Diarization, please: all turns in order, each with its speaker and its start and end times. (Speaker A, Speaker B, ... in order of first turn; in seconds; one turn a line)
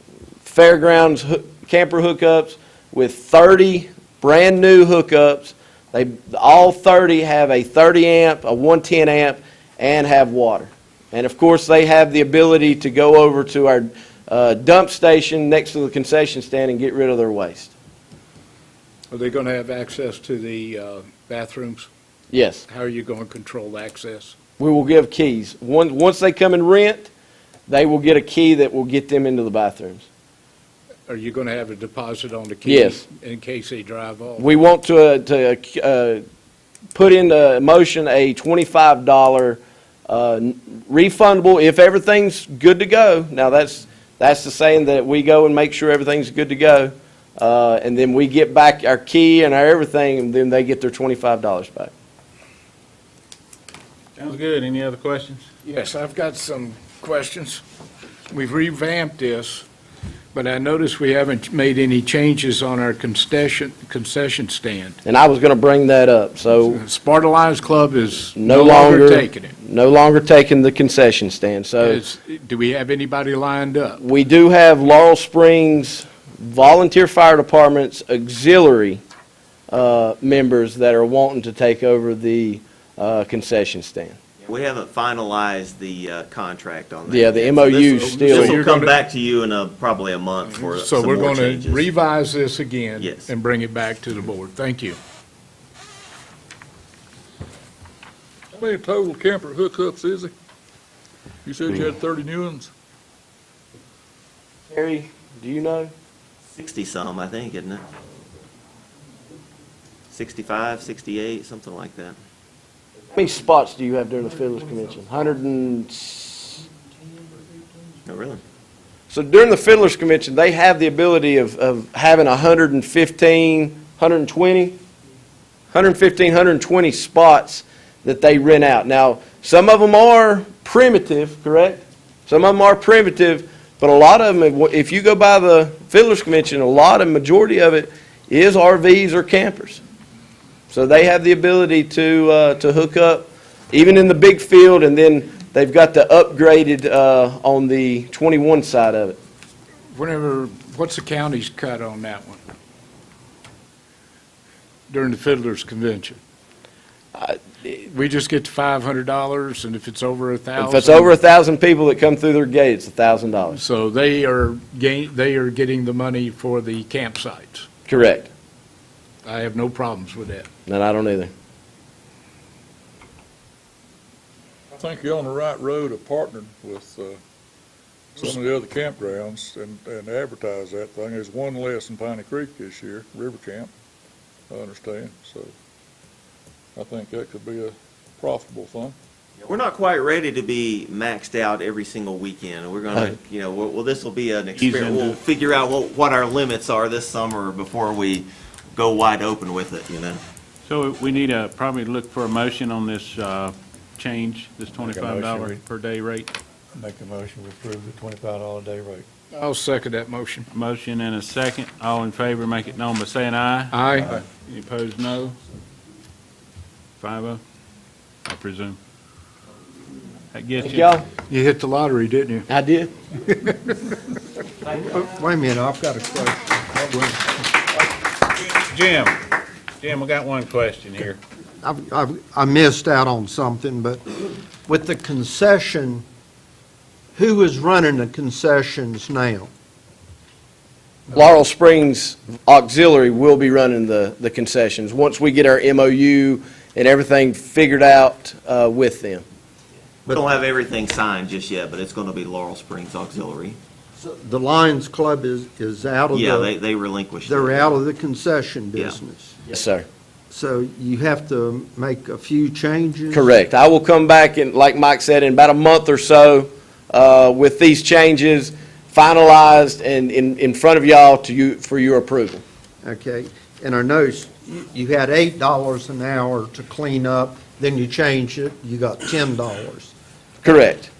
Speaker A: 0.4-17.7
Speaker B: 19.1-21.9
Speaker A: 22.3-22.6
Speaker B: 22.6-24.3
Speaker A: 24.6-27.1
Speaker A: 27.7-30.1
Speaker B: 31.1-34.5
Speaker A: 32.6-33.0
Speaker A: 34.4-36.2
Speaker A: 36.9-51.9
Speaker C: 54.2-55.4
Speaker B: 55.6-57.6
Speaker B: 58.3-59.6
Speaker B: 60.3-65.0
Speaker A: 65.0-66.8
Speaker B: 66.6-69.5
Speaker A: 68.4-72.0
Speaker B: 71.8-74.0
Speaker A: 74.0-79.0
Speaker A: 79.7-84.2
Speaker D: 84.4-91.9
Speaker A: 87.1-88.7
Speaker B: 88.0-88.9
Speaker B: 90.4-95.0
Speaker D: 93.0-93.3
Speaker E: 98.5-100.3
Speaker E: 101.4-102.7
Speaker A: 104.7-105.9
Speaker D: 106.5-107.8
Speaker D: 110.1-112.2
Speaker A: 113.1-116.7
Speaker D: 118.0-118.4
Speaker A: 119.1-124.8
Speaker A: 125.7-139.8
Speaker A: 140.7-149.2
Speaker B: 149.9-152.4
Speaker B: 154.9-156.2
Speaker A: 157.1-157.7
Speaker B: 157.7-161.2
Speaker A: 160.6-163.6
Speaker B: 163.6-167.7
Speaker A: 167.9-168.3
Speaker B: 169.2-170.5
Speaker A: 170.7-171.3
Speaker E: 174.7-177.2
Speaker E: 178.2-183.7
Speaker E: 184.5-185.5
Speaker E: 186.8-189.0
Speaker D: 189.4-200.2
Speaker C: 194.6-195.2
Speaker C: 200.6-206.3
Speaker E: 204.9-205.5
Speaker E: 206.8-209.0
Speaker B: 209.3-210.5
Speaker C: 210.5-215.4
Speaker B: 213.7-214.1
Speaker C: 217.0-217.4
Speaker C: 218.3-218.8
Speaker C: 220.3-220.9
Speaker A: 220.6-221.1
Speaker B: 221.3-222.5
Speaker A: 222.5-222.9
Speaker F: 224.7-227.3
Speaker C: 228.5-229.2
Speaker C: 229.8-231.2
Speaker F: 231.6-236.0
Speaker F: 237.1-239.5
Speaker A: 241.1-249.2
Speaker D: 250.0-253.6
Speaker F: 253.9-256.5
Speaker D: 256.1-257.8
Speaker F: 257.2-259.4
Speaker A: 259.5-259.9
Speaker F: 260.3-263.3
Speaker A: 263.1-272.4
Speaker F: 272.8-279.9
Speaker A: 280.4-280.9